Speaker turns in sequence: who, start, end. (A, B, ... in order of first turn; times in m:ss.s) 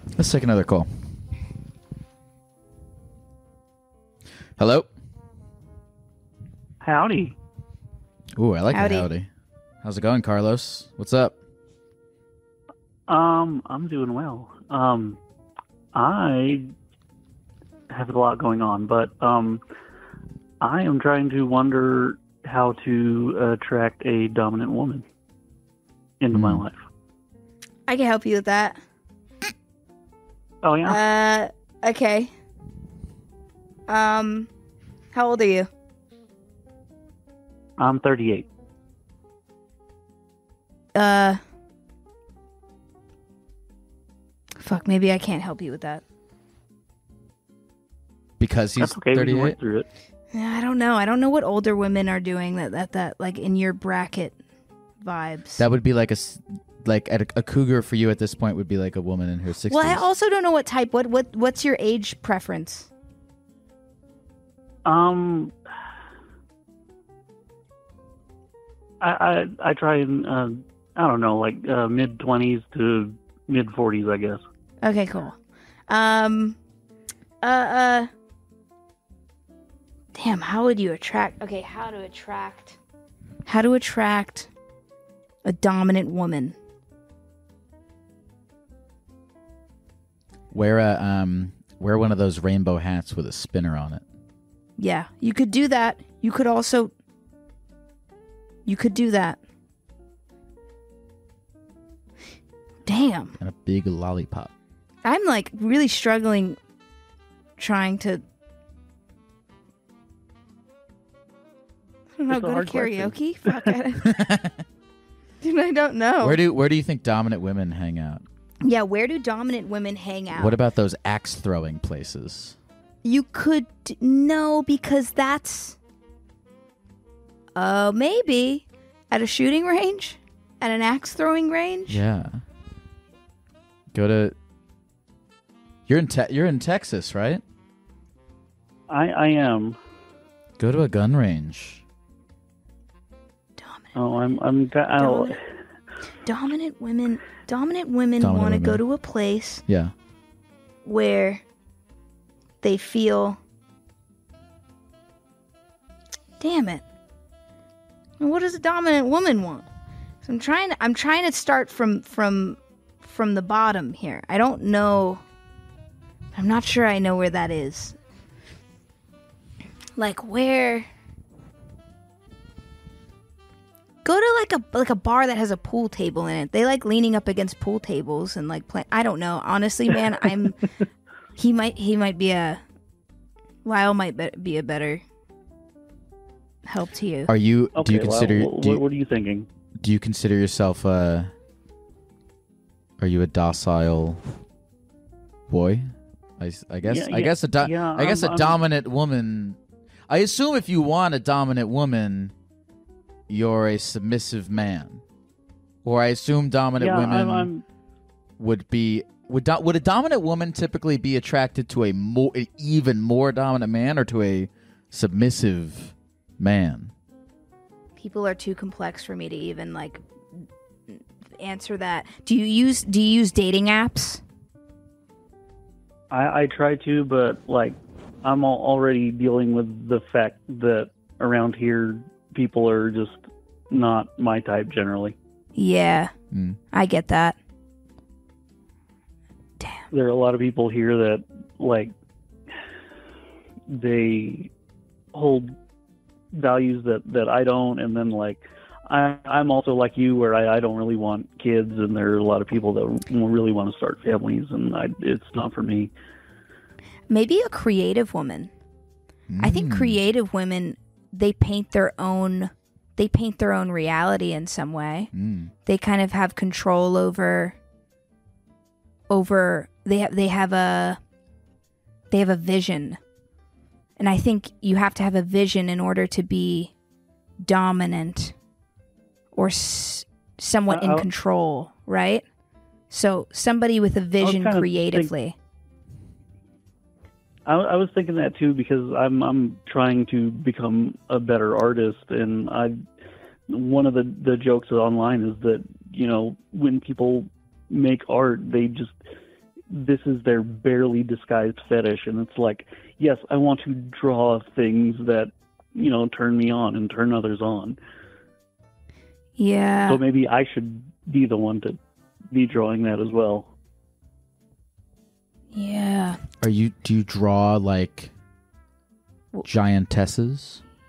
0:00.2-0:01.2 A
0:04.6-0:04.9 A
0:06.8-0:07.4 B
0:08.4-0:09.3 A
0:08.7-0:09.1 C
0:09.8-0:11.4 A
0:13.1-0:15.2 B
0:15.9-0:16.7 B
0:17.9-0:19.6 B
0:20.6-0:25.0 B
0:26.2-0:26.9 B
0:26.3-0:26.6 A
0:27.9-0:28.8 C
0:30.6-0:31.0 B
0:30.8-0:32.3 C
0:33.9-0:34.5 C
0:35.1-0:35.7 C
0:37.8-0:38.5 B
0:41.0-0:41.4 C
0:44.6-0:46.0 C
0:48.4-0:49.6 A
0:48.8-0:49.9 B
0:50.3-0:54.4 C
0:55.0-0:55.6 C
0:55.6-1:00.0 A
0:59.7-1:02.9 C
1:04.8-1:05.6 B
1:09.0-1:14.4 B
1:14.8-1:15.4 C
1:15.9-1:16.6 C
1:17.4-1:18.1 C
1:20.1-1:22.8 C
1:23.4-1:24.5 C
1:25.4-1:26.6 C
1:30.5-1:34.0 A
1:34.8-1:36.9 C
1:38.7-1:39.4 C
1:42.9-1:43.4 C
1:43.4-1:44.5 A
1:45.0-1:46.6 C
1:47.6-1:48.2 C
1:52.2-1:54.1 C
1:52.3-1:53.8 B
1:54.0-1:54.6 A
1:55.4-1:56.4 C
1:56.2-1:58.2 A
1:58.6-2:00.6 C
2:00.4-2:02.6 A
2:03.0-2:05.8 C
2:07.6-2:12.0 C
2:11.9-2:12.4 A
2:13.9-2:14.4 A
2:15.9-2:17.4 A
2:18.9-2:19.8 B
2:20.6-2:21.8 A
2:23.6-2:24.0 C
2:24.0-2:25.4 B
2:25.0-2:25.4 C
2:26.2-2:29.6 C
2:28.2-2:28.8 A
2:29.7-2:29.9 A
2:30.8-2:31.4 C
2:32.6-2:33.4 C
2:36.4-2:36.8 C
2:38.2-2:39.7 C
2:40.2-2:45.2 C
2:46.3-2:48.0 C
2:50.0-2:50.9 C
2:54.0-3:00.6 C
3:01.4-3:02.6 C
3:03.6-3:05.0 C
3:06.7-3:07.3 C
3:07.3-3:08.8 A
3:07.8-3:09.5 B
3:09.8-3:11.3 A
3:13.0-3:14.2 A
3:15.5-3:19.6 A
3:16.8-3:18.6 B
3:20.1-3:22.3 A
3:23.3-3:25.0 A
3:25.8-3:27.5 A
3:26.8-3:27.6 B
3:28.4-3:36.9 A
3:38.0-3:40.0 C
3:40.9-3:44.2 C
3:46.1-3:55.2 B
3:55.6-3:56.1 C
3:56.3-3:56.6 A
3:56.7-3:57.4 C
3:59.6-3:59.8 C
3:59.9-4:01.9 B
4:03.7-4:04.5 B
4:05.1-4:05.5 B
4:06.3-4:15.9 B
4:17.1-4:18.5 C
4:19.3-4:20.0 A
4:19.4-4:25.1 C
4:25.1-4:25.5 A
4:25.7-4:27.6 C
4:29.1-4:31.0 C
4:32.1-4:33.0 C
4:34.0-4:36.7 C
4:37.4-4:38.4 C
4:39.3-4:42.2 C
4:40.7-4:41.1 B
4:42.9-4:45.4 C
4:44.2-4:45.1 B
4:47.5-4:52.8 B
4:53.5-4:59.0 B
4:59.7-5:07.8 B
5:09.4-5:10.0 C
5:09.9-5:11.8 B
5:12.3-5:13.5 B
5:15.5-5:16.2 C
5:16.4-5:18.1 A
5:19.4-5:20.6 A